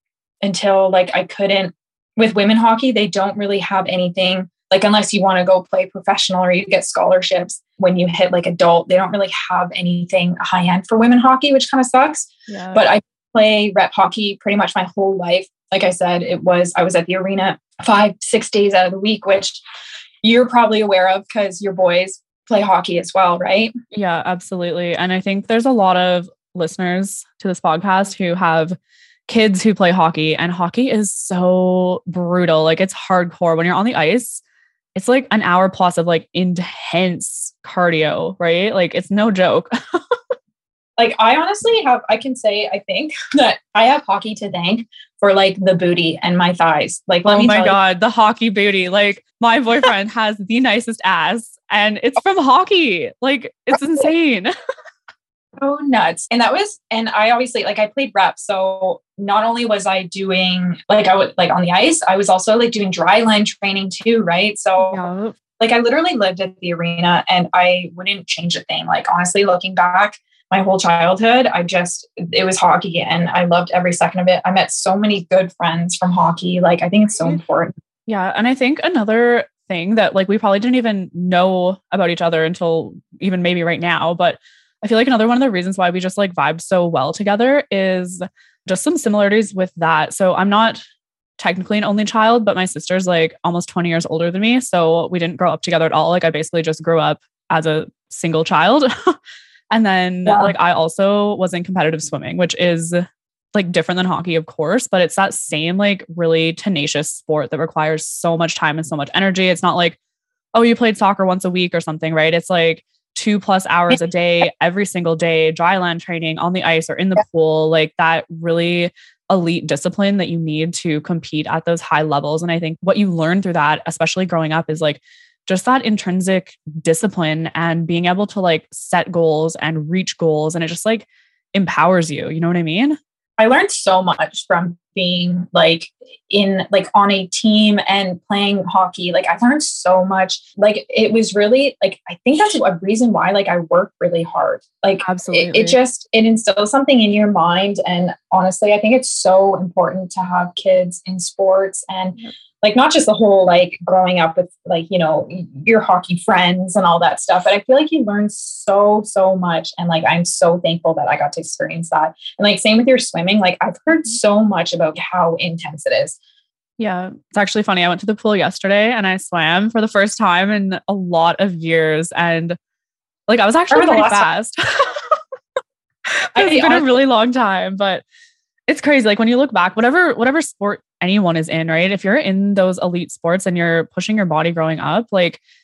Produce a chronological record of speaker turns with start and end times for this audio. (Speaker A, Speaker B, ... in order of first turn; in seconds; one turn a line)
Speaker A: 0.4-19.6
Speaker B: 12.5-12.8
Speaker A: 20.2-23.7
Speaker B: 23.9-28.8
Speaker B: 29.3-34.4
Speaker B: 34.9-39.7
Speaker A: 41.0-47.8
Speaker B: 47.3-54.5
Speaker A: 55.6-65.0
Speaker B: 64.8-65.3
Speaker A: 65.6-77.7
Speaker B: 78.1-90.8
Speaker B: 91.4-99.2
Speaker B: 99.7-103.0
Speaker A: 100.2-100.5
Speaker B: 103.5-110.0
Speaker B: 110.5-133.0
Speaker A: 133.4-166.2
Speaker B: 145.0-145.8
Speaker B: 166.8-172.6
Speaker B: 173.3-174.6
Speaker A: 173.7-174.2
Speaker B: 176.3-178.0
Speaker A: 176.3-176.9
Speaker B: 178.7-185.4